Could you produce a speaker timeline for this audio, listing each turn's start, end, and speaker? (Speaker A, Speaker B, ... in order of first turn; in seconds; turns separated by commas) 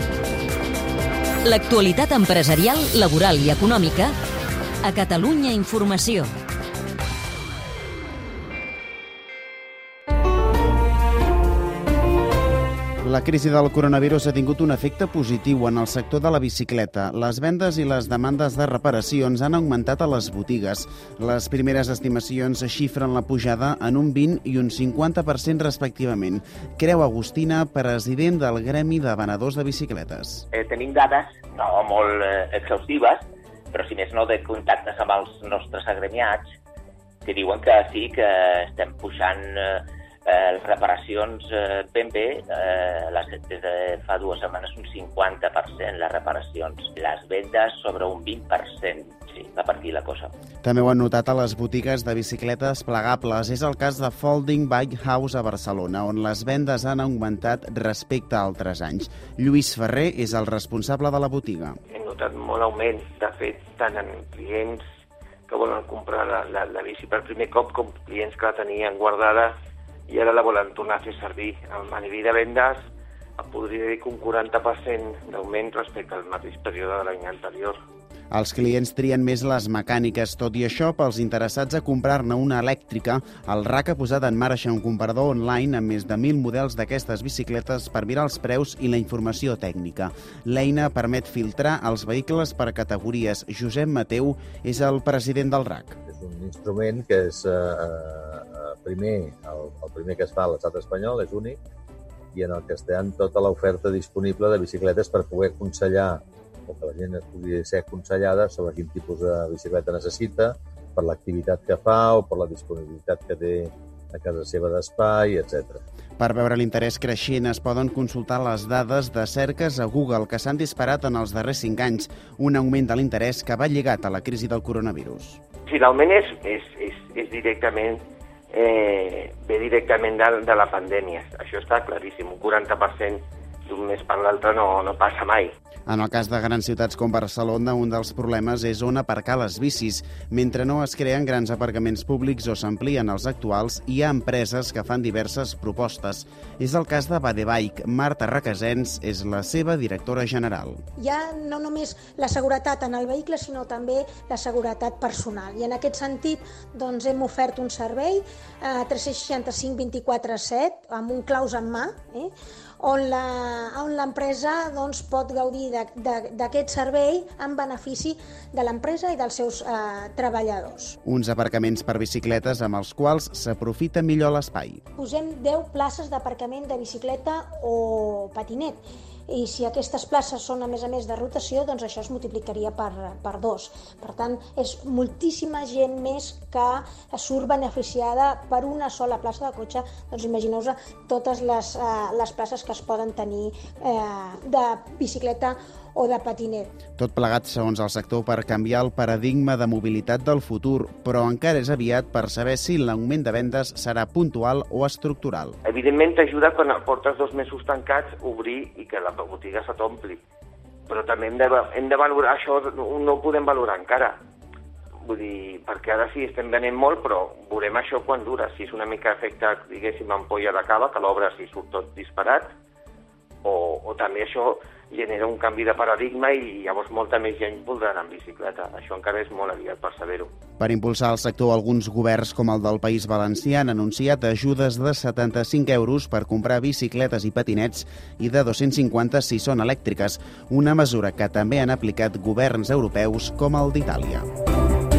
Speaker A: 1.4-4.1, Speaker A: 4.8-6.3, Speaker B: 13.0-30.4, Speaker C: 30.5-36.5, Speaker C: 37.2-50.3, Speaker B: 50.6-61.8, Speaker D: 61.9-64.8, Speaker D: 65.5-69.5, Speaker D: 70.1-72.8, Speaker D: 73.4-77.8, Speaker B: 78.3-96.0, Speaker E: 96.1-101.6, Speaker E: 102.3-115.8, Speaker B: 116.2-125.4, Speaker D: 125.7-135.5, Speaker B: 135.9-150.8, Speaker F: 151.0-171.0, Speaker B: 171.0-174.8, Speaker F: 175.0-196.7, Speaker B: 197.0-205.6, Speaker D: 205.7-210.2, Speaker D: 210.9-214.2, Speaker D: 215.0-222.5, Speaker D: 223.4-230.3, Speaker B: 230.6-244.2